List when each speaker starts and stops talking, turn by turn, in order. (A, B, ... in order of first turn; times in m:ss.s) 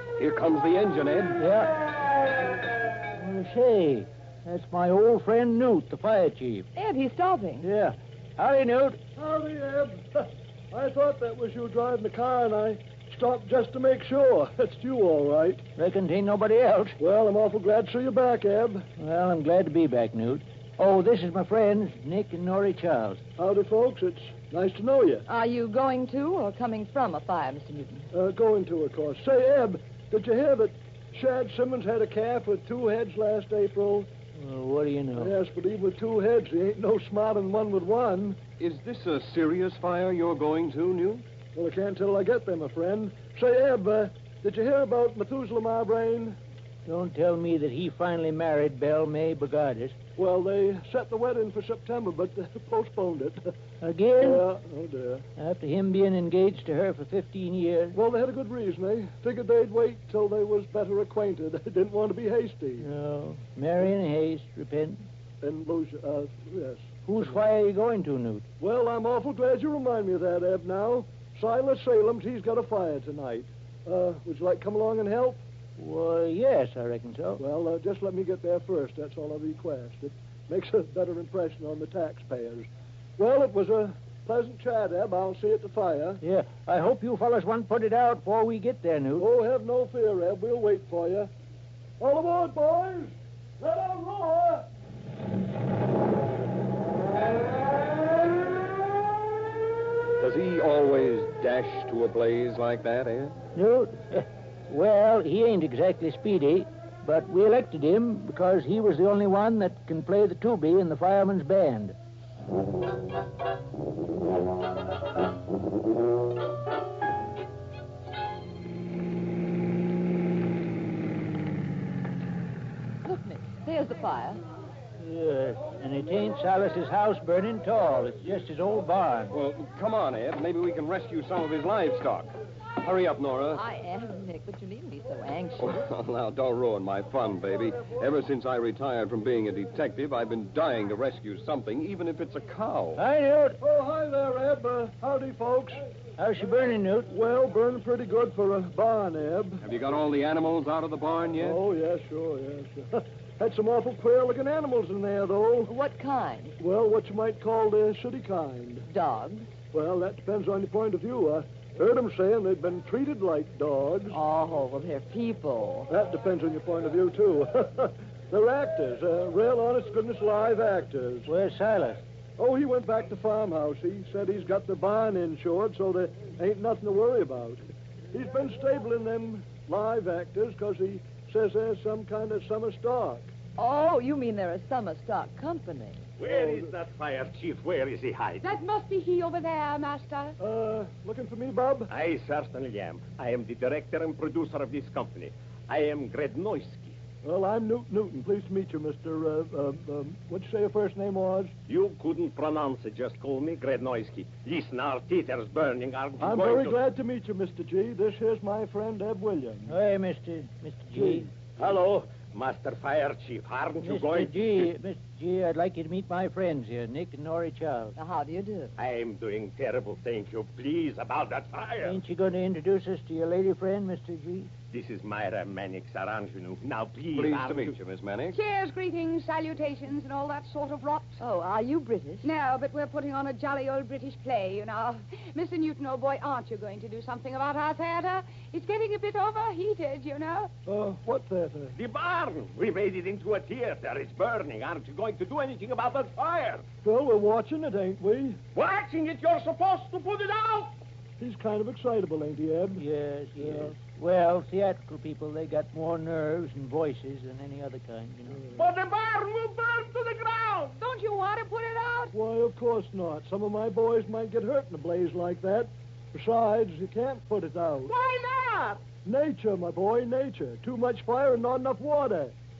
0:00.2-0:01.4 A
0:01.4-0:01.7 B
0:03.2-0:06.7 B
0:06.8-0:07.6 C
0:07.6-0:09.0 B
0:09.2-0:15.6 D
0:15.8-0:17.0 B
0:17.0-0:18.9 D
0:19.0-0:23.2 B
0:23.4-0:25.2 D
0:25.3-0:28.1 C
0:28.1-0:34.1 D
0:34.4-0:35.3 B
0:35.2-0:38.4 D
0:38.6-0:41.2 A
0:41.6-0:46.4 D
0:46.9-0:50.0 B
0:50.2-0:53.6 D
0:53.8-0:54.4 B
0:54.2-0:55.2 D
0:55.4-0:58.0 B
0:57.9-1:02.9 D
1:02.8-1:05.1 B
1:05.4-1:07.3 D
1:07.1-1:08.5 B
1:08.6-1:15.4 D
1:15.8-1:17.4 B
1:17.4-1:26.2 D
1:26.2-1:29.3 B
1:29.2-1:31.3 D
1:32.0-1:34.7 D
1:40.2-1:43.4 A
1:43.5-1:52.0 B
2:03.0-2:04.4 C
2:05.0-2:09.3 B
2:09.3-2:13.6 A
2:13.5-2:15.8 C
2:15.6-2:23.0 A
2:23.0-2:23.6 B
2:23.6-2:25.9 D
2:26.2-2:27.1 B
2:27.1-2:29.6 D
2:29.6-2:31.6 A
2:31.4-2:35.7 D
2:35.7-2:36.6 C
2:36.6-2:38.8 D
2:38.9-2:39.5 C
2:39.7-2:44.2 D
2:44.1-2:45.9 C
2:45.9-2:51.3 D
2:51.3-2:52.0 B
2:52.4-3:03.3 D
3:03.6-3:06.0 C
3:06.2-3:08.5 E
3:06.3-3:06.7 D
3:08.4-3:10.4 F
3:10.4-3:11.9 D
3:11.9-3:17.0 E
3:17.2-3:21.5 D
3:21.7-3:26.8 E
3:26.2-3:29.7 D
3:29.7-3:31.3 B
3:31.6-3:34.5 E
3:33.8-3:38.0 B
3:38.0-3:38.7 C
3:38.8-3:42.0 E
3:41.8-3:44.5 B
3:44.7-3:47.8 E
3:47.1-3:48.4 A
3:48.3-3:51.2 F
3:51.2-3:52.3 C
3:52.2-4:00.5 F
4:00.7-4:01.7 D
4:01.8-4:06.6 E
4:06.8-4:08.4 D
4:08.5-4:10.7 E
4:11.2-4:12.8 D
4:12.8-4:18.4 B
4:18.4-4:18.6 D
4:18.6-4:20.8 E
4:20.8-4:22.1 F
4:22.1-4:27.9 D
4:28.0-4:28.9 F
4:29.0-4:32.4 D